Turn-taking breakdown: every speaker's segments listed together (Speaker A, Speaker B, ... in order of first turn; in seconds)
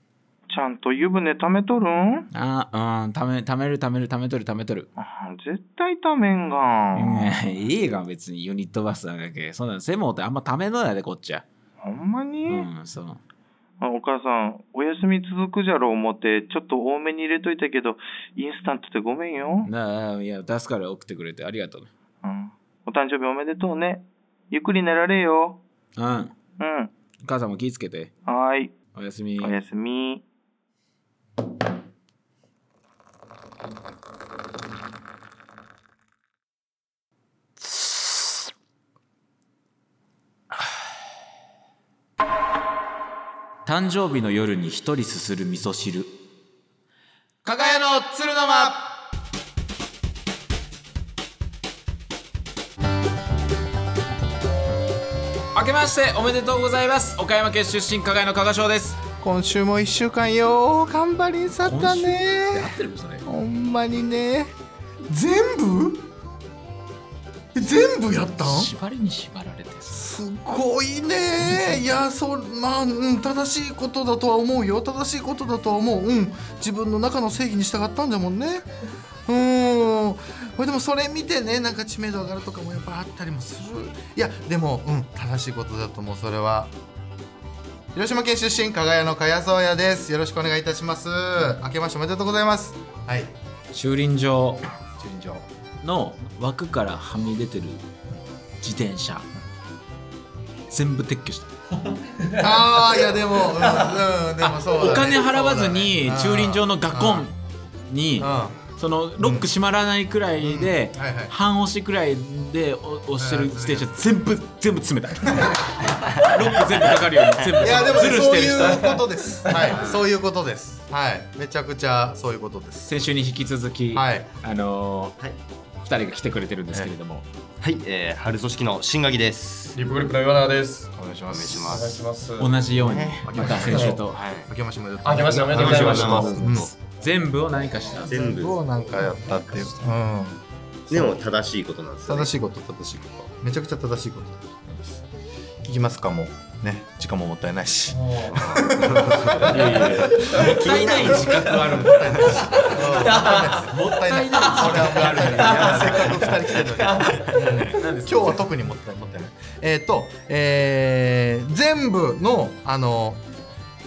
Speaker A: 0.5-2.3, 5.0-7.3, 11.8-12.7, 13.8-19.7, 22.2-25.6, 26.6-26.9, 28.3-28.8, 29.4-30.2
Speaker B: 2.3-4.9, 6.9-11.4, 12.5-13.2, 19.6-21.9, 26.0-26.3, 27.2-28.1, 28.9-29.6, 43.7-46.1, 47.5-48.8, 55.5-59.0, 61.7-63.3, 68.4-70.0, 93.7-97.8, 98.6-99.3, 100.7-101.5, 104.6-107.3, 107.9-119.0, 122.9-125.2, 125.8-127.3, 132.4-134.2, 135.5-138.4, 149.4-156.3, 157.3-158.4
Speaker C: 59.2-62.7, 63.2-64.5, 65.1-66.1, 67.5-68.7, 69.9-78.7, 79.3-86.7, 87.9-93.3, 95.0-95.4, 102.3-107.3, 108.2-108.6, 109.2-109.5, 110.4-111.3, 113.2-114.1, 117.6-122.9, 123.9-124.3, 130.9-132.0, 133.2-136.7, 138.1-141.2, 142.1-145.0, 145.6-163.2
Speaker D: 118.5-119.8, 129.8-130.9, 131.7-132.5, 133.7-134.0, 135.0-136.4, 139.0-139.9, 147.9-148.6, 149.3-149.6, 150.1-153.7, 154.5-157.4
Speaker E: 127.6-129.8, 131.3-132.0, 132.8-134.5, 135.5-136.7, 138.1-138.6, 140.9-142.3, 148.3-151.2, 155.9-156.2, 157.3-157.6